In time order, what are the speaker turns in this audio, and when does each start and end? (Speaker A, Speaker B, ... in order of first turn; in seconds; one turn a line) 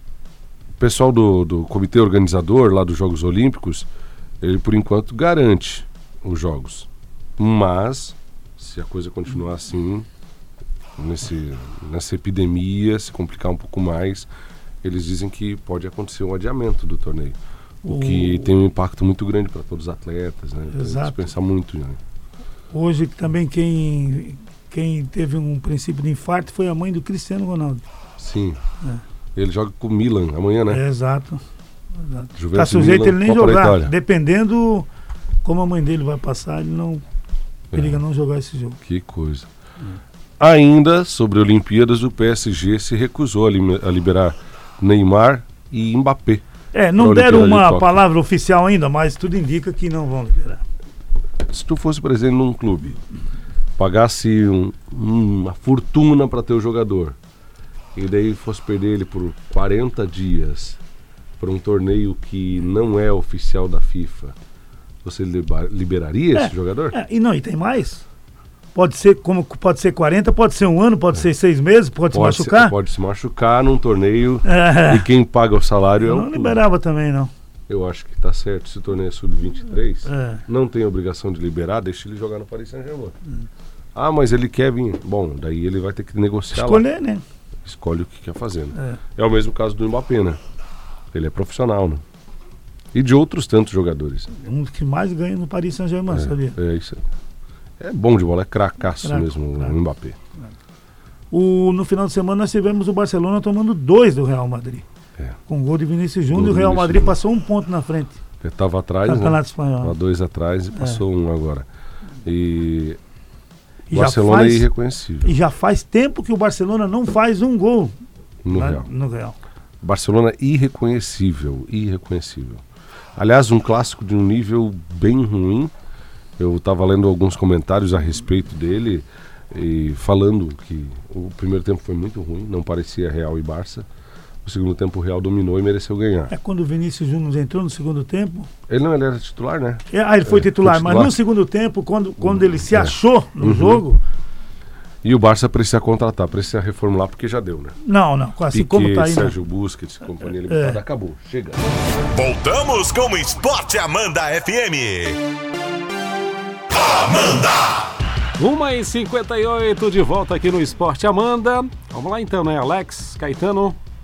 Speaker A: 0.8-3.9
Speaker A: 4.4-10.1
Speaker A: 11.0-14.3
Speaker A: 14.8-22.0
Speaker B: 17.8-18.5
Speaker B: 20.7-21.2
Speaker B: 22.7-27.8
Speaker A: 28.2-28.6
Speaker A: 29.3-30.8
Speaker B: 30.7-31.4
Speaker B: 32.0-34.9
Speaker A: 32.4-33.9
Speaker B: 35.4-37.0
Speaker A: 37.7-38.0
Speaker B: 37.7-38.8
Speaker A: 38.8-39.5
Speaker A: 40.4-46.4
Speaker B: 46.7-50.6
Speaker A: 47.0-48.0
Speaker A: 51.5-53.0
Speaker A: 53.8-57.1
Speaker A: 57.9-60.8
Speaker A: 61.4-64.3
Speaker A: 65.0-67.0
Speaker B: 66.3-68.0
Speaker B: 68.7-72.8
Speaker A: 72.1-76.6
Speaker B: 74.4-75.1
Speaker B: 76.0-77.3
Speaker A: 77.7-83.1
Speaker B: 80.1-80.4
Speaker A: 83.9-86.8
Speaker B: 86.5-87.2
Speaker A: 87.6-90.4
Speaker A: 91.1-92.0
Speaker A: 92.9-94.3
Speaker B: 94.4-96.6
Speaker A: 96.1-97.0
Speaker A: 97.8-100.2
Speaker B: 99.0-99.8
Speaker B: 101.3-104.8
Speaker B: 105.5-108.2
Speaker A: 106.3-107.2
Speaker A: 108.4-111.7
Speaker B: 109.0-109.9
Speaker A: 112.2-113.0
Speaker B: 113.9-114.7
Speaker A: 113.9-115.3
Speaker B: 115.2-117.9
Speaker A: 118.4-118.9
Speaker B: 118.5-119.4
Speaker A: 119.8-122.6
Speaker A: 123.2-125.7
Speaker A: 126.4-133.9
Speaker A: 134.4-136.3
Speaker B: 136.3-138.5
Speaker A: 138.7-141.2
Speaker B: 139.9-144.0
Speaker A: 142.2-143.8
Speaker A: 145.0-147.8
Speaker B: 147.8-149.3
Speaker A: 148.5-151.6
Speaker B: 150.5-150.8
Speaker C: 152.1-155.2
Speaker C: 156.8-157.7
Speaker D: 158.4-163.8